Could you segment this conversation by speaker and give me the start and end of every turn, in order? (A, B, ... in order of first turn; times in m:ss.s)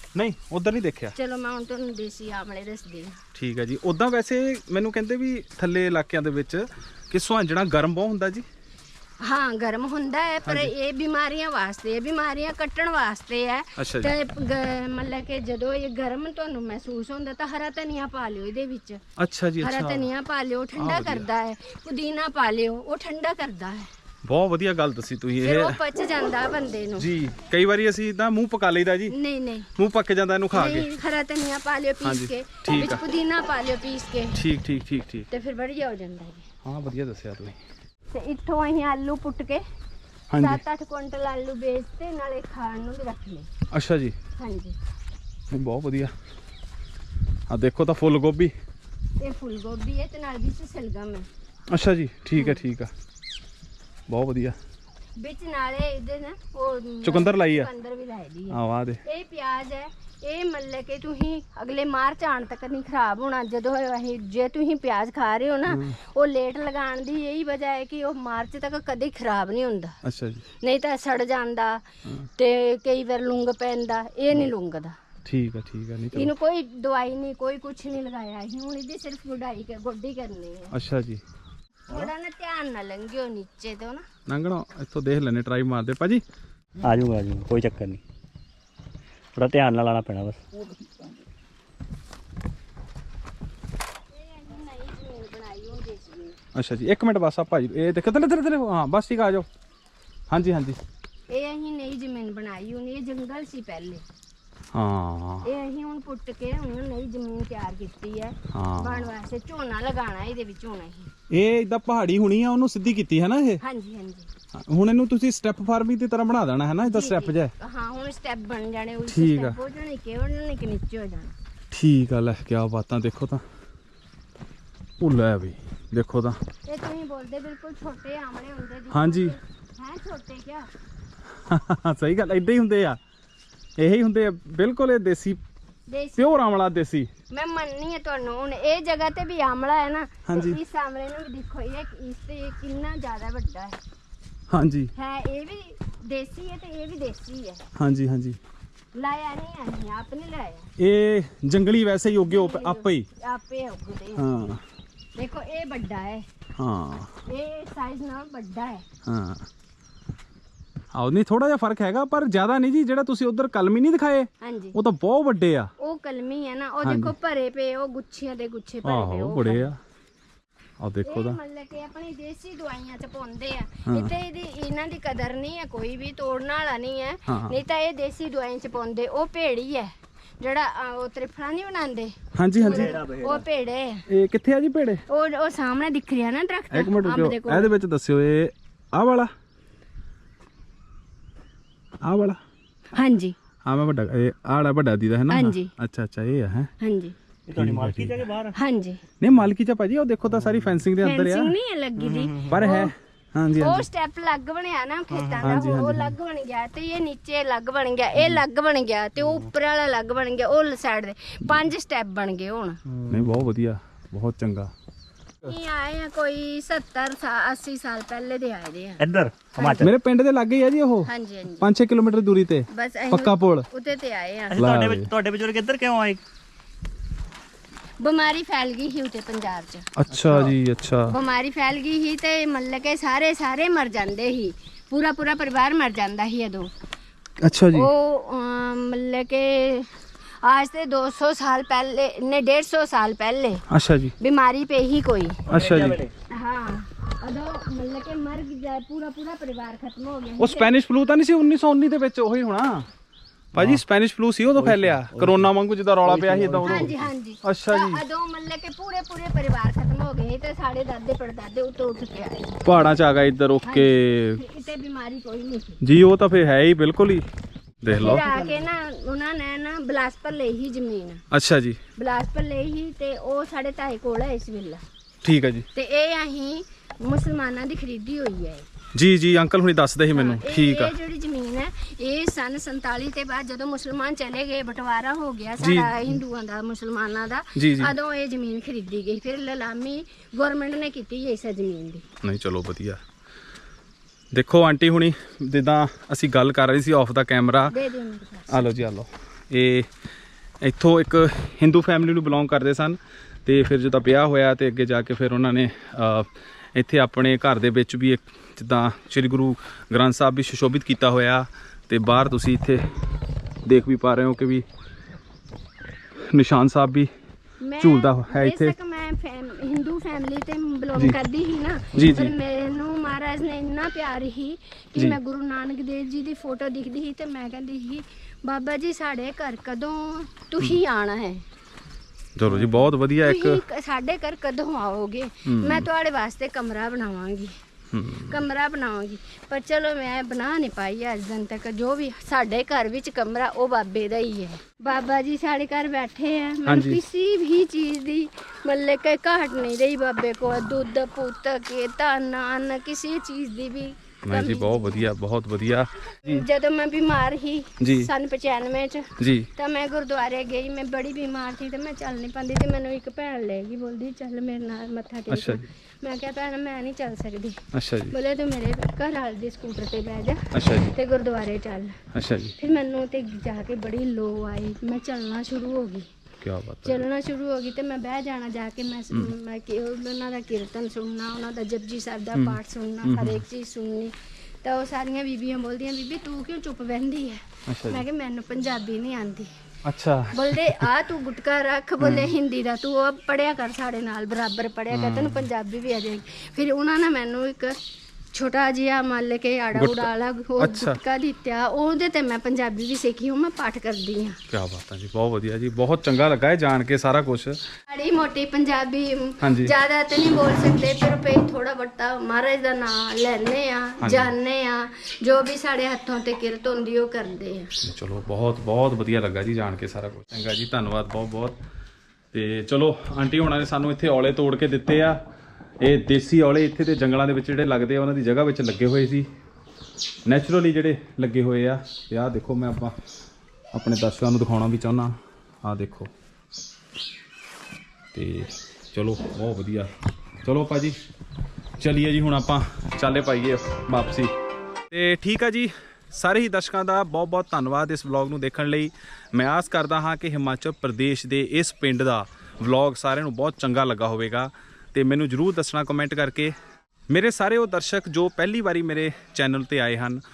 0:00.2-0:01.2 A
0:01.2-0:03.2 B
0:03.4-0:08.5 A
0:09.2-0:19.0 B
0:10.4-0:10.7 A
0:13.8-0:14.1 A
0:19.2-0:20.1 A
0:19.6-0:23.9 B
0:20.8-0:21.3 A
0:24.3-0:25.8 A
0:25.4-0:27.1 B
0:27.0-0:29.2 A
0:29.1-0:29.7 B
0:29.8-0:30.9 A
0:30.5-0:34.4 B
0:32.0-0:33.0 A
0:34.4-0:35.3 A
0:35.3-0:36.5 B
0:36.6-0:37.6 A
0:38.1-0:39.6 B
0:40.3-0:40.6 A
0:40.4-0:43.5 B
0:43.7-0:44.2 A
0:44.4-0:44.8 B
0:45.5-0:46.1 A
0:47.5-0:48.5 A
0:49.2-0:51.3 B
0:51.7-0:52.9 A
0:52.3-0:52.6 B
0:54.1-0:54.6 A
0:55.2-1:10.0 B
0:57.0-0:57.7 A
0:58.5-0:59.0 A
1:05.7-1:06.0 A
1:10.0-1:10.5 A
1:10.6-1:15.0 B
1:15.2-1:16.3 A
1:16.1-1:20.8 B
1:20.7-1:21.2 A
1:21.9-1:24.0 B
1:24.3-1:26.2 A
1:26.8-1:28.0 C
1:29.4-1:30.7 C
1:34.1-1:36.4 B
1:36.6-1:39.5 A
1:40.3-1:40.8 A
1:41.3-1:44.0 B
1:44.7-1:45.5 A
1:45.4-1:51.1 B
1:48.5-1:49.1 A
1:51.3-1:53.6 A
1:53.6-1:54.3 B
1:54.6-1:57.5 A
1:56.8-2:01.3 B
1:59.1-1:59.6 A
2:01.7-2:03.4 A
2:05.0-2:06.4 A
2:06.7-2:10.7 B
2:08.9-2:09.4 A
2:11.4-2:13.0 A
2:13.8-2:15.4 A
2:15.9-2:16.4 B
2:16.2-2:17.1 A
2:17.3-2:23.8 B
2:20.3-2:20.6 A
2:24.5-2:24.9 A
2:25.0-2:27.6 B
2:27.8-2:28.4 A
2:28.9-2:30.7 B
2:30.8-2:33.1 A
2:32.3-2:34.3 B
2:34.2-2:34.6 A
2:35.2-2:36.3 B
2:36.6-2:37.1 A
2:37.3-2:38.8 B
2:39.0-2:39.5 A
2:40.9-2:45.7 A
2:44.4-2:44.8 B
2:45.8-2:49.7 B
2:46.8-2:47.2 A
2:48.8-2:49.8 A
2:50.8-2:51.4 A
2:51.0-3:04.1 B
2:53.9-2:54.1 A
2:57.3-2:57.6 A
3:02.4-3:03.0 A
3:02.7-3:03.4 C
3:04.1-3:05.0 A
3:05.1-3:07.7 B
3:06.7-3:09.3 A
3:12.0-3:12.4 A
3:12.9-3:13.4 B
3:13.7-3:16.7 A
3:15.3-3:15.7 B
3:16.8-3:17.2 B
3:17.5-3:18.6 C
3:17.6-3:18.2 A
3:18.6-3:19.0 B
3:19.2-3:21.6 A
3:21.0-3:22.9 B
3:22.0-3:22.6 C
3:22.5-3:23.8 A
3:23.6-3:32.8 B
3:25.1-3:25.4 C
3:25.4-3:26.2 A
3:33.1-3:34.7 A
3:35.4-3:39.0 B
3:39.0-3:39.9 C
3:39.6-3:43.7 A
3:41.1-3:41.7 B
3:42.7-3:44.6 B
3:44.5-3:46.2 C
3:44.6-3:45.1 A
3:48.0-3:49.9 B
3:50.0-3:51.2 A
3:50.2-3:50.5 C
3:51.1-3:56.7 B
3:57.4-3:57.9 A
3:57.7-3:59.9 B
4:00.4-4:03.7 B
4:03.7-4:04.2 A
4:04.2-4:05.4 B
4:05.5-4:06.0 A
4:05.5-4:06.1 C
4:06.3-4:10.7 B
4:10.4-4:12.9 A
4:13.6-4:13.8 C
4:13.6-4:18.0 A
4:14.6-4:15.5 C
4:16.0-4:17.0 C
4:16.6-4:22.6 B
4:22.6-4:24.4 A
4:23.6-4:25.8 B
4:25.8-4:27.2 A
4:27.8-4:28.3 A
4:27.9-4:31.2 B
4:31.3-4:31.8 A
4:32.0-4:34.8 B
4:35.2-4:35.7 A
4:35.7-4:38.7 B
4:39.0-4:41.0 A
4:40.1-4:52.1 B
4:45.6-4:46.2 A
4:47.6-4:47.9 A
4:52.2-4:53.0 A
4:54.3-4:57.8 A
4:57.7-4:58.7 B
4:58.5-4:59.9 A
5:00.6-5:12.8 A
5:13.7-5:14.6 A
5:16.3-5:17.1 A
5:17.6-5:31.4 B
5:17.8-5:18.8 A
5:21.9-5:22.3 A
5:32.4-5:33.6 A
5:33.2-5:37.5 B
5:35.4-5:35.9 A
5:37.9-5:38.4 A
5:38.1-5:55.1 B
5:46.7-5:47.0 A
5:54.2-5:56.5 A
5:56.2-6:12.0 B
5:57.8-5:58.1 A
5:59.2-5:59.5 A
6:05.3-6:05.6 A
6:07.7-6:08.2 A
6:10.5-6:11.0 A
6:12.1-6:12.6 A
6:12.6-6:16.1 B
6:16.4-6:17.1 A
6:16.8-6:29.5 B
6:22.3-6:23.4 A
6:27.7-6:28.0 A
6:29.8-6:30.9 A
6:30.3-6:37.8 B
6:32.0-6:32.3 A
6:34.9-6:35.5 A
6:38.3-6:44.4 B
6:39.7-6:41.0 A
6:44.5-6:47.6 A
6:47.9-6:57.7 B
6:49.4-6:49.8 A
6:54.0-6:54.4 A
6:57.8-7:01.6 A
7:02.3-7:05.2 A
7:05.8-7:09.3 A
7:10.3-7:12.9 A
7:13.7-7:16.1 A
7:18.1-7:19.9 A
7:20.4-7:21.0 A
7:21.8-7:24.3 A
7:24.9-7:36.6 A
7:37.1-7:40.2 A